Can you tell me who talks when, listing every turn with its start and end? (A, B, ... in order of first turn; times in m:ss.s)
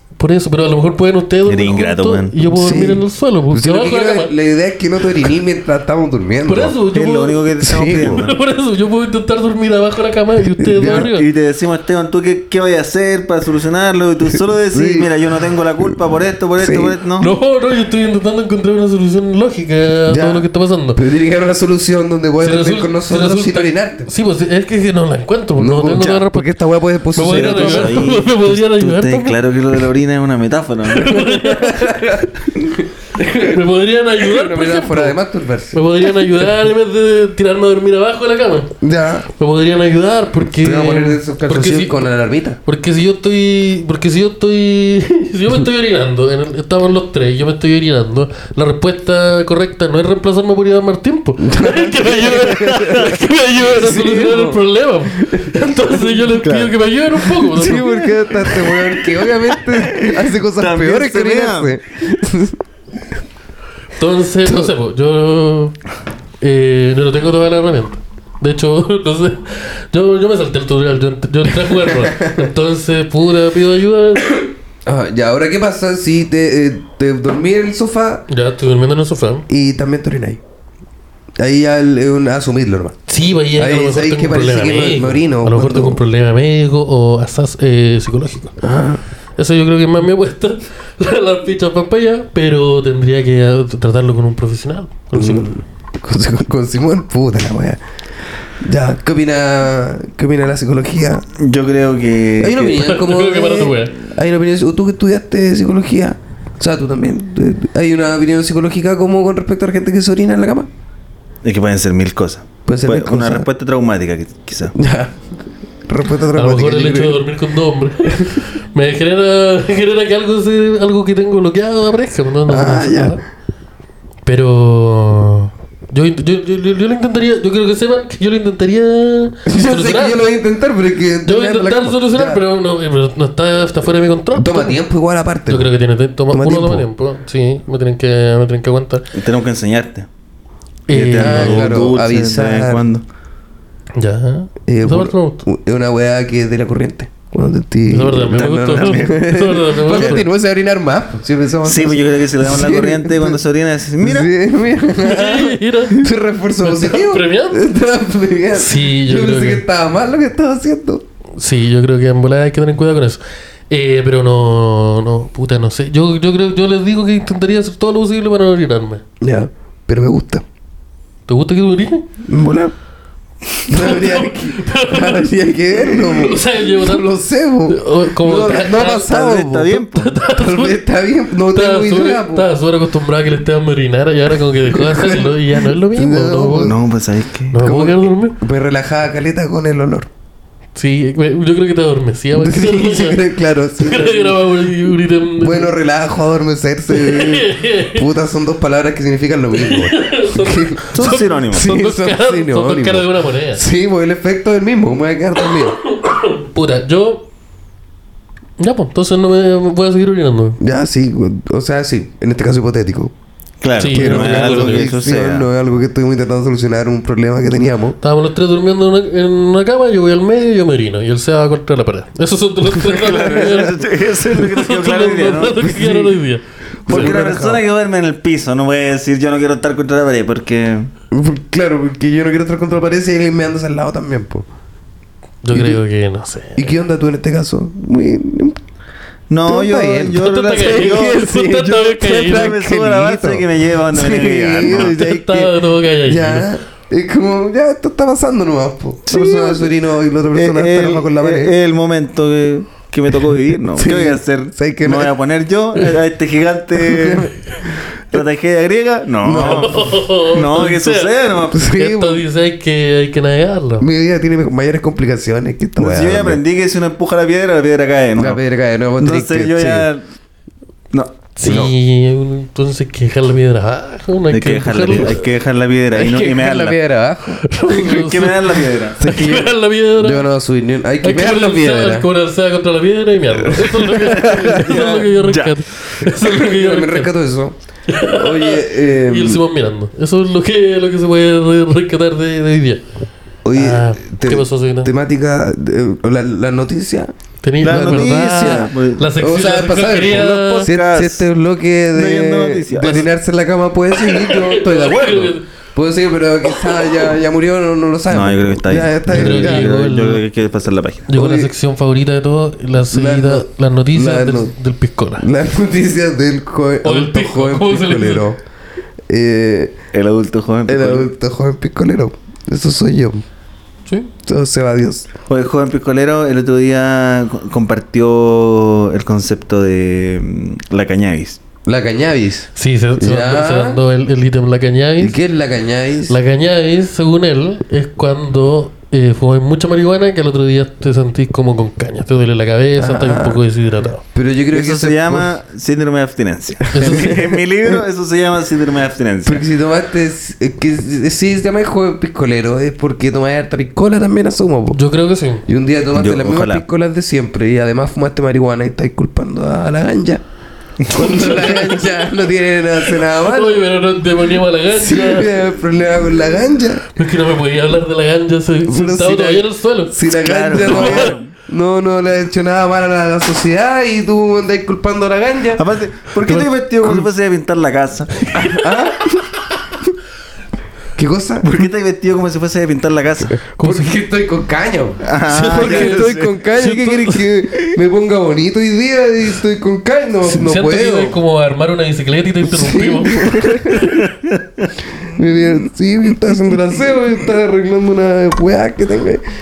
0:00.2-0:04.3 A
0:01.4-0:02.5 B
0:02.5-0:06.8 C
0:06.4-0:11.2 A
0:06.9-0:08.4 B
0:07.6-0:08.2 C
0:10.6-0:11.1 C
0:10.8-0:17.3 B
0:14.7-0:15.1 C
0:16.6-0:17.0 C
0:17.2-0:21.0 A
0:20.1-0:24.1 C
0:22.4-0:26.5 A
0:25.6-0:28.1 C
0:27.1-0:29.4 A
0:27.2-0:31.2 B
0:30.9-0:32.0 A
0:31.2-0:32.8 C
0:33.1-0:35.2 A
0:34.2-0:36.4 C
0:35.7-0:38.7 A
0:38.8-0:39.3 C
0:39.4-0:42.0 A
0:40.4-0:42.6 C
0:42.6-0:58.0 A
0:51.4-0:56.2 C
0:56.4-0:56.7 B
0:57.5-1:02.6 C
0:58.4-1:01.8 B
1:04.0-1:05.8 A
1:04.4-1:04.7 C
1:06.4-1:14.4 A
1:11.7-1:12.5 C
1:14.8-1:18.2 C
1:18.3-1:19.5 A
1:19.5-1:20.4 C
1:21.4-1:23.0 C
1:23.1-1:28.6 A
1:23.5-1:26.0 C
1:28.6-1:29.0 C
1:29.4-1:35.5 A
1:35.1-1:37.8 C
1:38.6-1:41.2 C
1:41.4-1:42.8 B
1:42.4-1:50.7 C
1:42.7-1:43.9 A
1:51.4-1:54.7 B
1:52.7-1:53.5 C
1:54.7-1:55.2 C
1:55.9-1:57.2 C
1:56.3-2:03.2 A
2:02.5-2:03.2 C
2:04.2-2:10.2 A
2:09.4-2:12.4 C
2:11.2-2:14.8 A
2:14.3-2:15.7 C
2:15.5-2:19.1 A
2:16.3-2:16.9 C
2:19.1-2:20.1 B
2:20.9-2:21.8 A
2:20.9-2:23.0 B
2:21.2-2:22.8 C
2:24.0-2:25.4 A
2:24.7-2:33.4 C
2:27.9-2:30.3 A
2:28.7-2:29.1 B
2:31.6-2:34.3 B
2:34.0-2:41.0 C
2:35.0-2:36.1 A
2:36.6-2:37.6 A
2:38.5-2:39.6 A
2:41.4-2:49.0 A
2:49.2-2:50.4 C
2:51.3-2:52.1 A
2:52.2-2:52.7 C
2:53.7-2:59.8 C
2:53.7-2:57.1 A
2:57.7-2:59.1 A
2:58.9-3:00.1 B
2:59.7-3:00.8 A
3:00.3-3:02.5 C
3:01.5-3:06.7 A
3:04.6-3:06.8 C
3:06.6-3:07.6 B
3:07.5-3:08.4 A
3:07.6-3:10.1 C
3:10.8-3:13.2 A
3:12.3-3:14.4 C
3:13.8-3:15.7 A
3:15.4-3:25.8 C
3:16.9-3:18.0 A
3:19.5-3:23.6 A
3:20.9-3:21.7 B
3:25.4-3:27.2 A
3:28.6-3:30.6 A
3:30.6-3:33.1 C
3:33.6-3:35.5 B
3:33.8-3:34.9 A
3:33.8-3:38.0 C
3:38.0-3:47.1 A
3:42.8-3:43.7 C
3:42.8-3:45.6 B
3:45.6-3:46.2 C
3:46.8-3:47.6 C
3:46.9-3:50.9 B
3:51.1-3:54.4 C
3:55.4-3:56.7 A
3:55.5-3:55.8 C
3:56.6-3:58.6 C
3:59.3-4:01.4 B
3:59.4-4:11.5 C
4:00.2-4:02.6 A
4:02.0-4:05.0 B
4:04.6-4:06.5 A
4:09.1-4:09.7 B
4:10.3-4:17.3 B
4:13.8-4:15.1 C
4:16.8-4:17.3 C
4:18.1-4:21.7 B
4:19.2-4:19.9 C
4:19.4-4:23.8 A
4:21.5-4:22.2 C
4:23.8-4:26.4 C
4:25.8-4:28.4 B
4:28.2-4:29.9 C
4:29.0-4:30.0 B
4:31.4-4:35.2 A
4:31.4-4:31.7 C
4:34.3-4:36.8 B
4:35.9-4:37.5 C
4:37.5-4:40.2 A
4:37.6-4:39.0 B
4:39.0-4:42.1 C
4:41.0-4:47.1 A
4:43.5-4:44.7 C
4:44.4-4:45.6 B
4:46.0-4:49.4 C
4:47.9-4:52.8 A
4:53.4-5:09.7 C
4:53.5-4:54.9 A
4:57.4-5:00.7 A
4:57.6-4:59.1 B
5:00.0-5:01.3 B
5:01.9-5:03.1 B
5:03.9-5:05.4 A
5:08.1-5:11.1 B
5:09.1-5:10.2 A
5:11.1-5:15.2 A
5:11.1-5:11.5 C
5:12.9-5:14.5 C
5:15.2-5:18.4 C
5:16.8-5:18.2 A
5:19.1-5:19.8 C
5:19.9-5:21.1 B
5:20.7-5:23.2 C
5:23.8-5:24.1 A
5:24.2-5:25.1 C
5:25.3-5:31.4 B
5:31.6-5:33.8 C
5:32.6-5:35.2 A
5:35.0-5:36.2 C
5:36.1-5:44.0 A
5:42.8-5:43.4 C
5:44.1-5:45.3 C
5:44.5-5:49.4 B
5:46.7-5:47.2 A
5:46.8-5:47.8 C
5:49.2-5:54.8 C
5:54.7-5:55.4 A
5:55.4-6:00.2 C
5:55.9-5:56.6 B
6:00.8-6:01.1 B
6:00.9-6:03.6 C
6:01.0-6:01.8 A
6:02.9-6:05.3 A
6:04.7-6:06.9 C
6:06.9-6:11.1 A
6:08.6-6:15.6 C
6:10.1-6:11.3 B
6:15.6-6:18.4 B
6:16.2-6:16.5 A
6:18.3-6:19.1 A
6:18.4-6:19.3 C
6:21.0-6:21.6 C
6:21.4-6:23.4 B
6:23.4-6:31.2 C
6:23.6-6:24.0 A
6:25.0-6:26.4 B
6:25.3-6:27.2 A
6:30.3-6:34.0 A
6:32.4-6:33.9 C
6:33.9-6:34.7 B
6:35.0-6:39.2 C